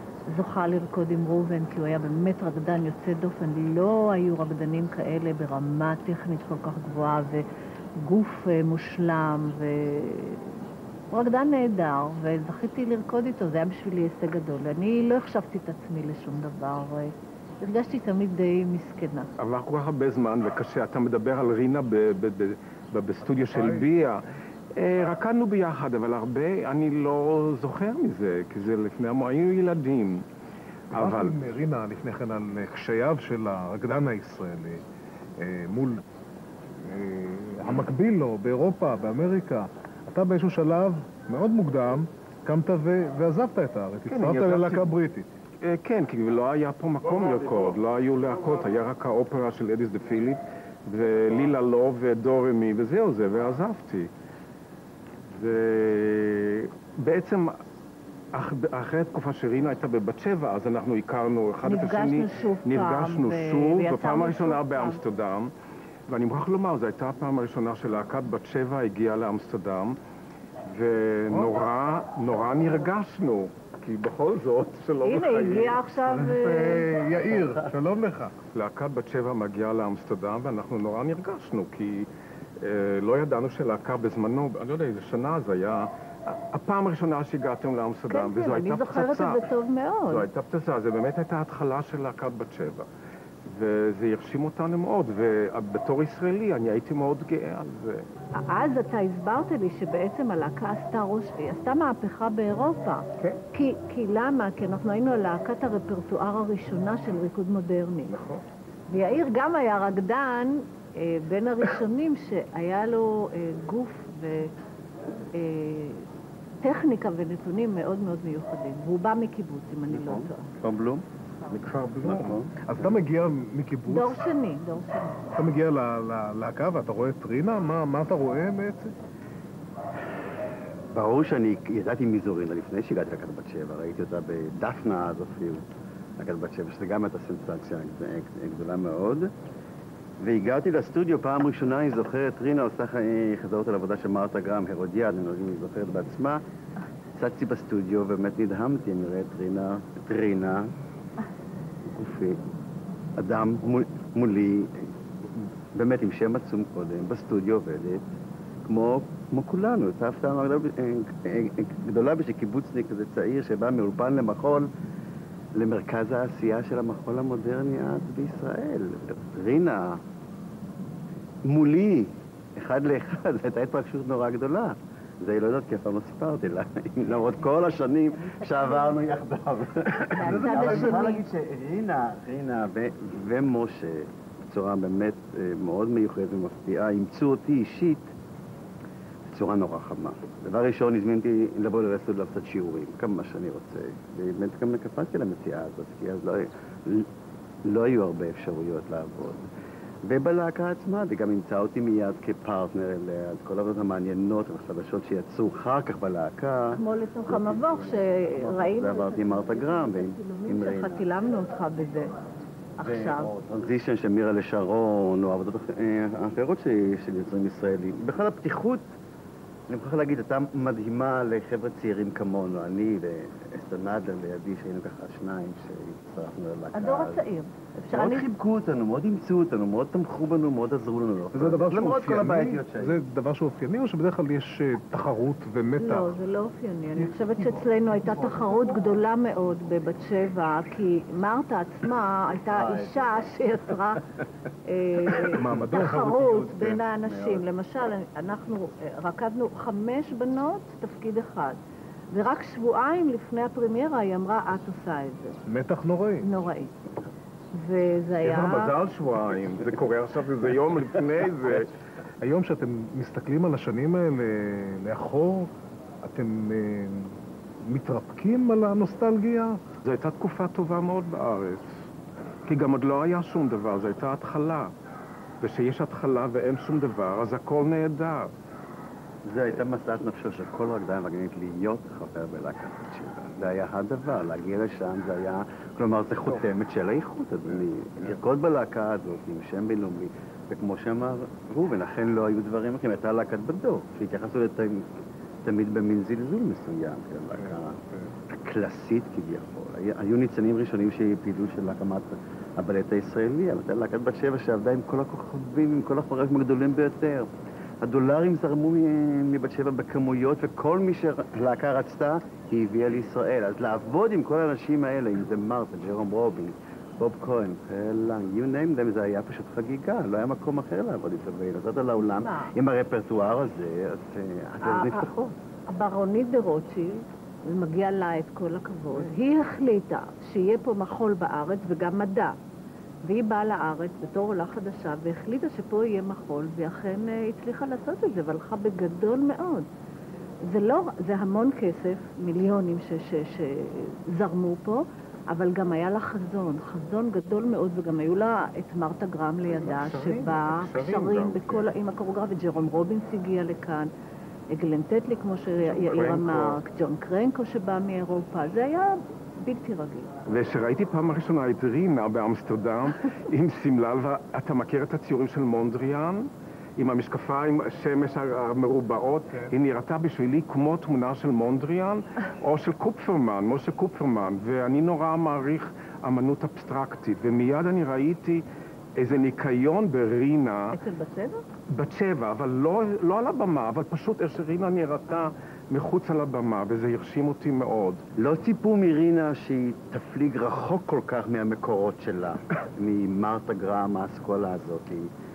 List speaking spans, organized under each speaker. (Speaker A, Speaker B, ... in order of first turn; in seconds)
Speaker A: 0.3-7.5, 8.0-19.3, 61.6-65.0, 75.0-76.8, 88.1-90.3, 98.3-108.2, 108.9-114.5, 115.3-116.1, 116.6-120.5, 123.9-125.4, 178.1-179.0, 180.1-181.2, 206.7-212.1, 212.8-213.3, 226.7-228.3, 235.8-244.0, 244.7-251.6, 252.1-255.4, 256.2-256.7, 257.5-258.7, 322.0-322.5, 324.6-332.4, 333.1-339.7, 340.4-353.9, 354.5-360.1, 380.7-381.4
Speaker B: 19.4-24.2, 24.7-30.2, 30.9-31.4, 44.1-44.9, 45.6-54.1, 55.3-57.5, 58.3-65.5, 66.1-70.0, 70.7-75.8, 78.5-82.1, 82.6-89.4, 90.1-92.9, 93.4-98.1, 108.1-108.4, 121.7-122.0, 258.2-261.7, 269.8-271.9, 272.4-274.7, 275.4-278.3, 349.6-351.7, 355.6-356.6, 360.2-378.4, 378.9-380.8, 381.7-388.0
Speaker C: 23.4-23.9, 30.9-34.8, 35.4-36.0, 36.8-45.3, 71.3-71.5, 76.0-78.3, 121.5-124.2, 125.3-128.9, 180.3-180.9, 231.3-236.1, 237.0-237.8, 245.3-246.8, 255.4-256.3, 262.2-265.5, 266.0-269.6, 297.4-298.1, 369.3-369.5
Speaker D: 119.9-121.0, 122.0-122.8, 130.9-139.3, 140.2-146.4, 147.1-150.7, 151.8-152.4, 153.2-158.1, 158.7-164.7, 165.6-170.0, 171.4-188.1, 189.3-197.1, 197.6-199.5, 200.0-211.1, 212.8-218.9, 219.7-227.2, 227.9-232.9, 242.5-243.3, 247.0-247.4, 279.2-294.9, 295.4-297.8, 298.3-307.3, 307.8-325.3, 388.2-395.1